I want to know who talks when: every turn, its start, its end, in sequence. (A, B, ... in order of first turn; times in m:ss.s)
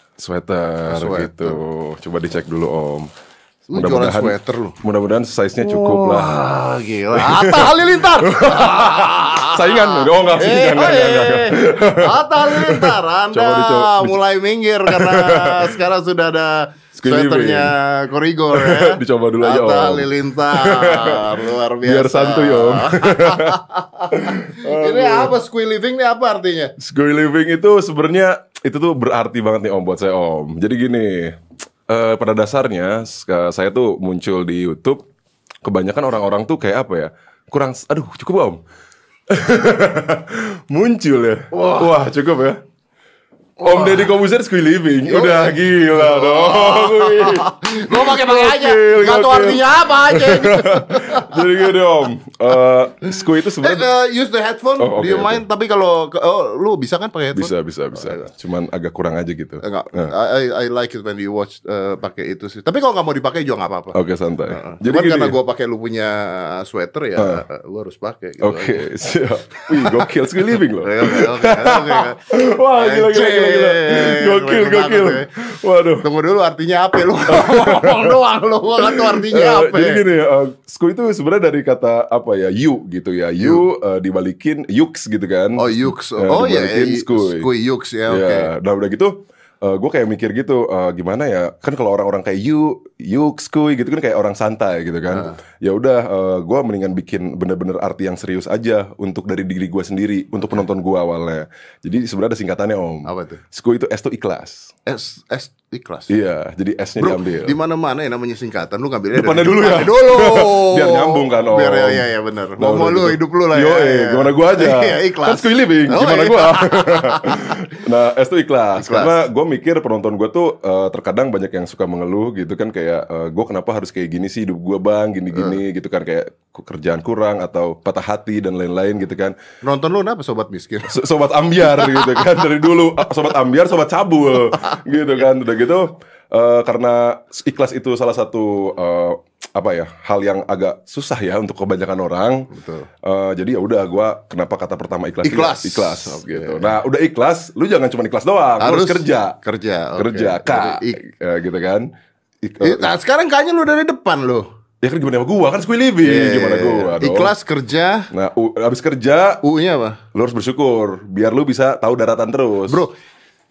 0:00.2-0:03.1 A
0:00.9-0:01.6 B
0:03.7-0:04.8 B
0:03.7-0:14.2 A
0:05.6-0:26.7 B
0:14.9-0:15.7 A
0:17.0-0:17.7 A
0:18.5-0:25.4 A
0:26.8-0:35.0 A
0:35.6-0:38.6 A
0:39.3-0:42.6 A
0:41.5-0:42.0 B
0:43.6-0:44.2 B
0:43.6-0:53.9 A
0:45.1-0:51.7 B
0:53.4-0:58.2 B
0:54.8-0:55.4 A
0:57.3-1:00.1 A
0:59.6-1:04.0 B
1:03.9-1:05.4 A
1:04.5-1:08.9 B
1:07.2-1:07.4 A
1:08.4-1:16.1 A
1:09.7-1:15.3 B
1:16.0-1:20.0 B
1:17.3-1:18.2 A
1:18.8-1:27.5 A
1:23.4-1:23.6 B
1:25.6-1:28.5 B
1:28.1-1:44.7 A
1:43.1-1:43.4 B
1:44.9-1:46.1 B
1:46.1-1:47.6 A
1:47.0-1:57.6 B
1:49.1-1:52.0 A
1:52.6-2:09.4 A
1:58.8-1:59.2 B
2:05.3-2:05.6 B
2:09.6-2:11.0 B
2:10.9-2:22.5 A
2:11.6-2:12.3 B
2:22.5-2:22.9 B
2:23.0-2:29.4 A
2:25.2-2:26.8 B
2:28.6-2:31.0 B
2:30.0-2:31.9 A
2:32.4-2:32.9 A
2:32.6-2:34.5 B
2:34.8-2:37.3 A
2:36.0-2:38.1 B
2:38.1-2:39.4 A
2:39.4-2:40.0 B
2:40.1-2:42.8 A